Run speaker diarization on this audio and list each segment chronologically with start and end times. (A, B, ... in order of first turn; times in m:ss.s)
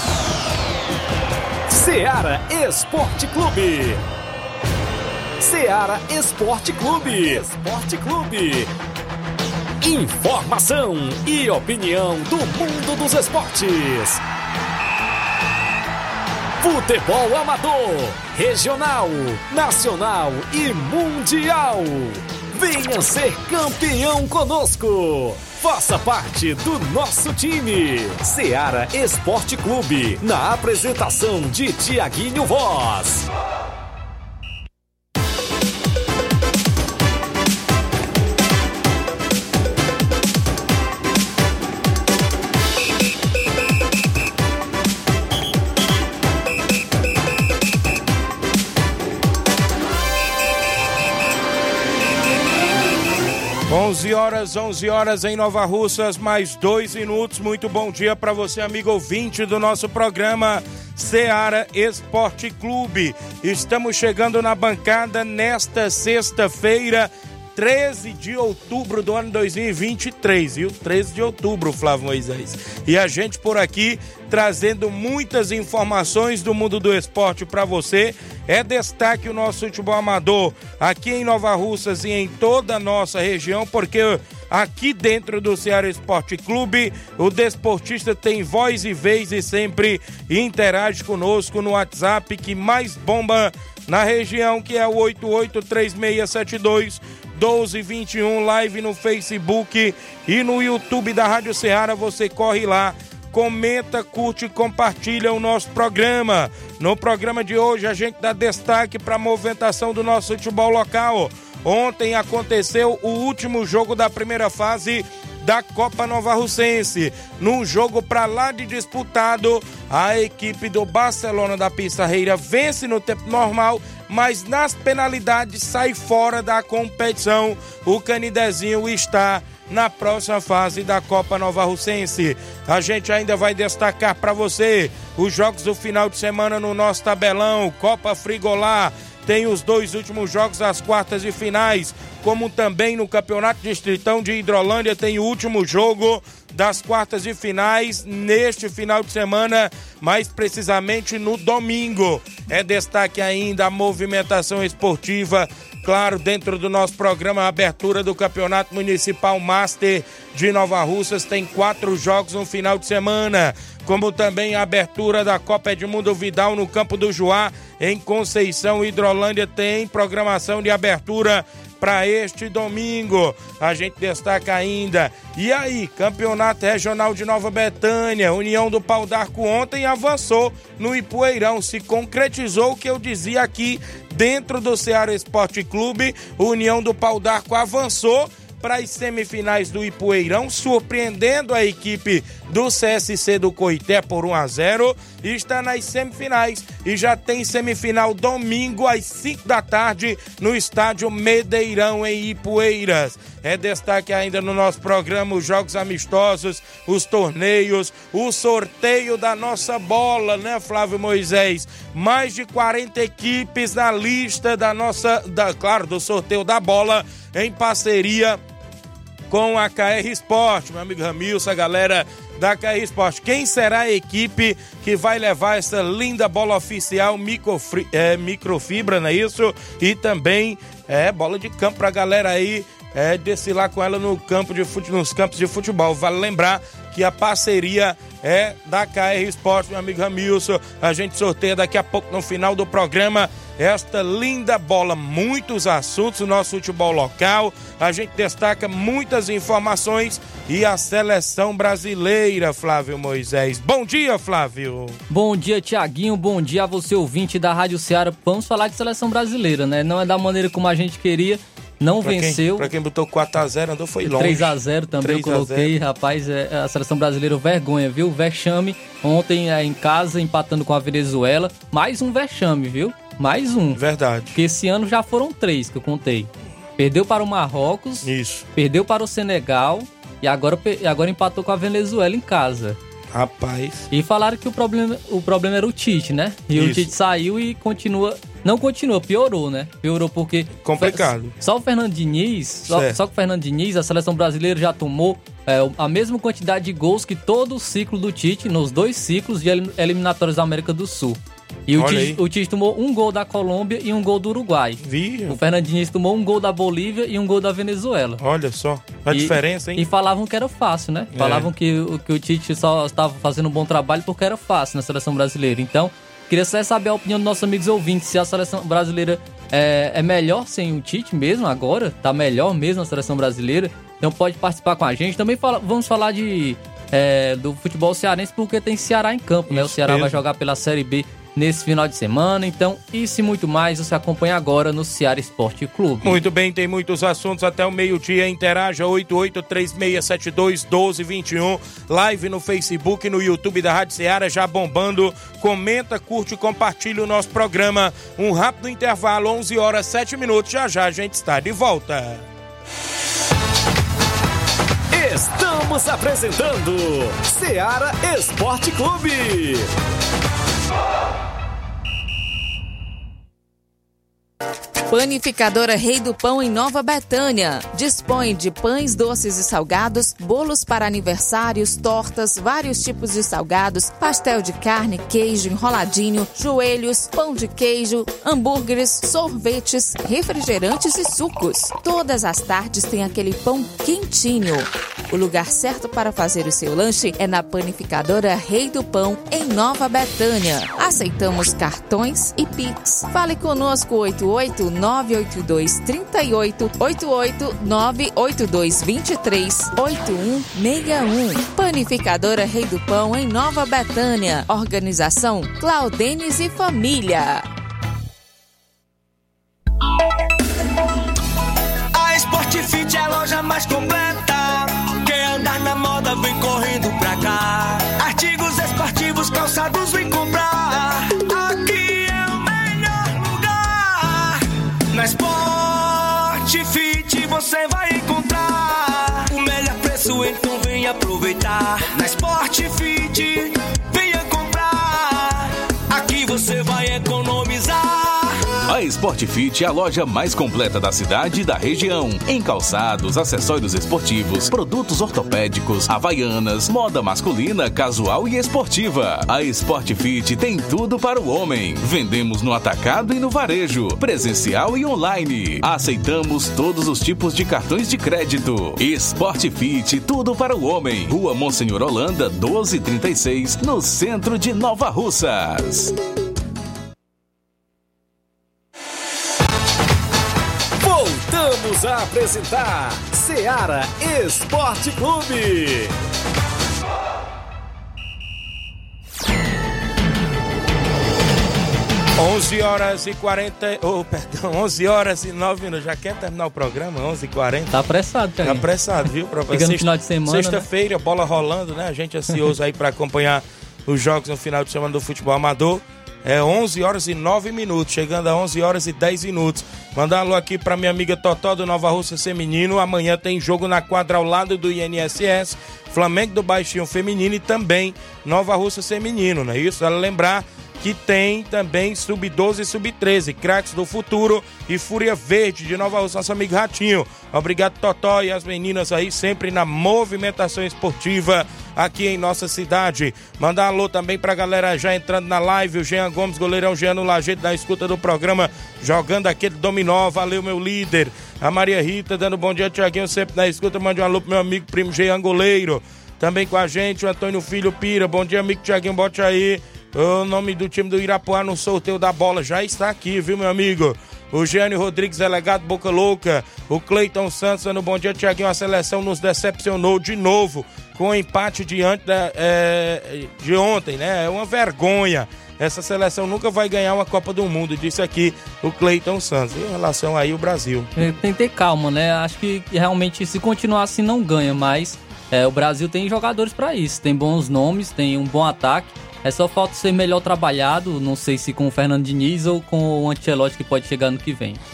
0:01.7-0:04.0 A
0:05.4-0:08.7 A
0:09.8-0:14.2 A
0:16.6-0:33.2 A
0:53.7-3:38.4 B
3:39.3-4:15.0 B
4:15.1-4:22.7 C
4:22.0-4:25.7 B
4:24.0-4:33.8 C
4:33.8-4:34.4 B
4:34.3-4:42.8 C
4:38.0-4:38.5 B
4:43.1-4:43.9 B
4:43.9-5:08.2 C
4:46.5-4:46.9 B
4:50.6-4:51.3 B
4:52.7-4:53.0 B
5:01.8-5:02.2 B
5:04.8-5:05.4 B
5:08.2-5:09.9 B
5:09.1-5:36.2 C
5:11.1-5:11.5 B
5:29.5-5:30.2 B
5:36.0-5:52.3 B
5:54.9-5:59.7 A
6:04.9-6:47.5 D
6:51.9-7:18.5 E
7:18.7-7:45.9 F
7:50.8-7:55.9 A
8:02.2-8:07.7 B
8:07.7-8:08.7 C
8:08.4-9:20.9 B
8:09.5-8:10.7 C
9:21.0-9:34.6 C